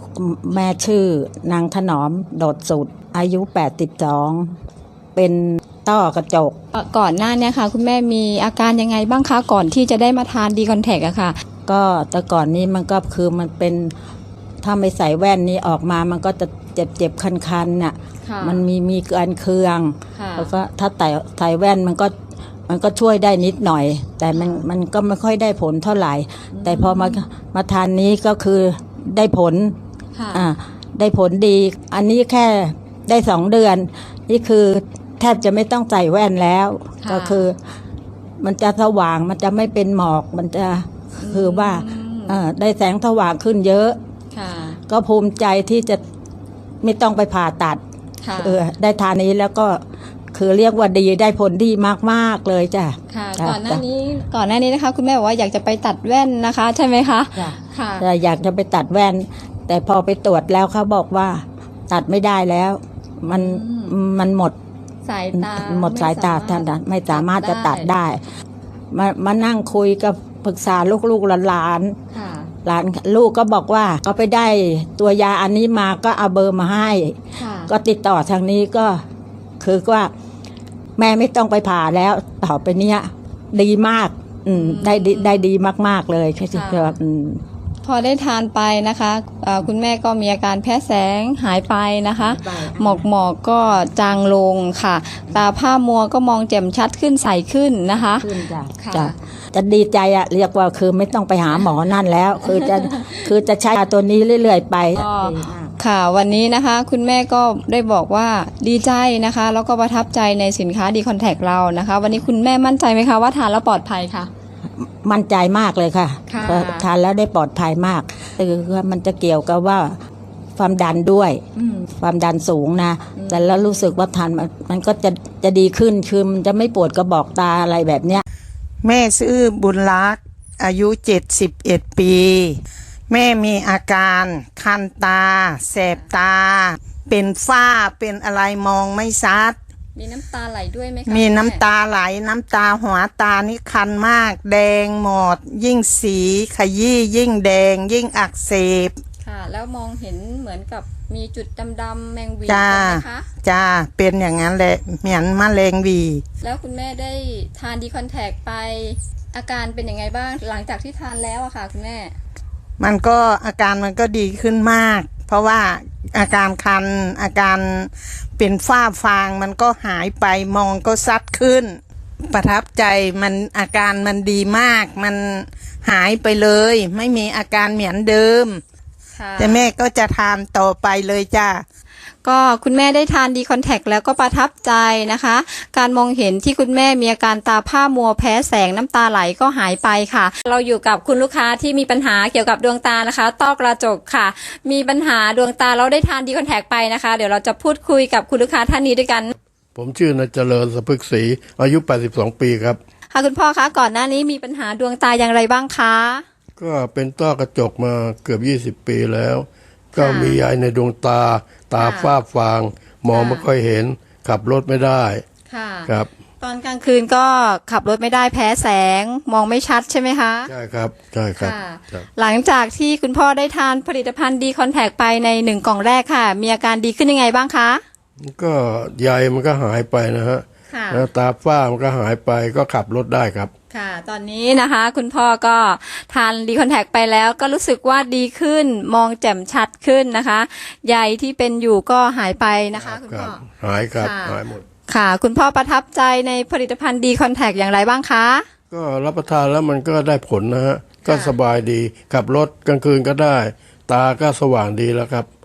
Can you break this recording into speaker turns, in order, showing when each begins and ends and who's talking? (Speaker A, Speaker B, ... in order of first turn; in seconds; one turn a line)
Speaker A: 0.1-4.5
Speaker A: 5.1-6.6
Speaker B: 6.7-11.4
Speaker A: 11.7-13.9
Speaker A: 14.6-22.1
Speaker B: 18.2-18.6
Speaker B: 20.1-20.5
Speaker A: 22.7-29.8
Speaker B: 24.3-24.6
Speaker B: 26.5-27.1
Speaker B: 30.1-30.4
Speaker A: 30.3-37.6
Speaker B: 37.0-37.4
Speaker A: 38.4-44.0
Speaker B: 41.2-42.4
Speaker B: 44.3-44.8
Speaker A: 44.9-46.0
Speaker A: 46.8-47.8
Speaker B: 48.2-48.6
Speaker A: 48.4-53.8
Speaker B: 53.1-58.0
Speaker A: 57.3-64.5
Speaker B: 63.3-63.9
Speaker B: 65.0-67.9
Speaker A: 65.3-68.2
Speaker A: 68.9-72.0
Speaker B: 72.1-72.5
Speaker A: 72.6-79.0
Speaker B: 77.4-77.7
Speaker A: 79.6-80.1
Speaker A: 81.0-87.4
Speaker B: 84.5-85.5
Speaker B: 86.5-87.0
Speaker B: 87.8-99.2
Speaker A: 92.2-93.1
Speaker A: 98.2-105.7
Speaker B: 102.4-103.2
Speaker B: 105.0-114.3
Speaker A: 114.8-120.0
Speaker B: 116.3-116.8
Speaker A: 120.6-121.4
Speaker B: 121.5-121.9
Speaker A: 122.0-128.2
Speaker B: 123.2-123.8
Speaker C: 128.8-139.6
Speaker B: 139.9-141.6
Speaker C: 141.1-148.9
Speaker B: 149.2-153.2
Speaker C: 152.5-156.2
Speaker B: 156.4-162.2
Speaker C: 162.8-178.6
Speaker B: 179.2-179.6
Speaker C: 179.4-181.6
Speaker B: 182.2-199.3
Speaker D: 199.7-202.8
Speaker B: 203.1-206.2
Speaker D: 206.6-215.2
Speaker B: 209.9-210.4
Speaker B: 211.7-212.2
Speaker B: 213.1-213.5
Speaker B: 215.5-220.5
Speaker D: 220.5-222.1
Speaker B: 221.4-227.8
Speaker D: 228.2-233.5
Speaker B: 230.7-231.1
Speaker B: 233.7-243.4
Speaker D: 242.8-244.6
Speaker B: 243.9-248.5
Speaker D: 248.7-255.3
Speaker B: 251.0-251.3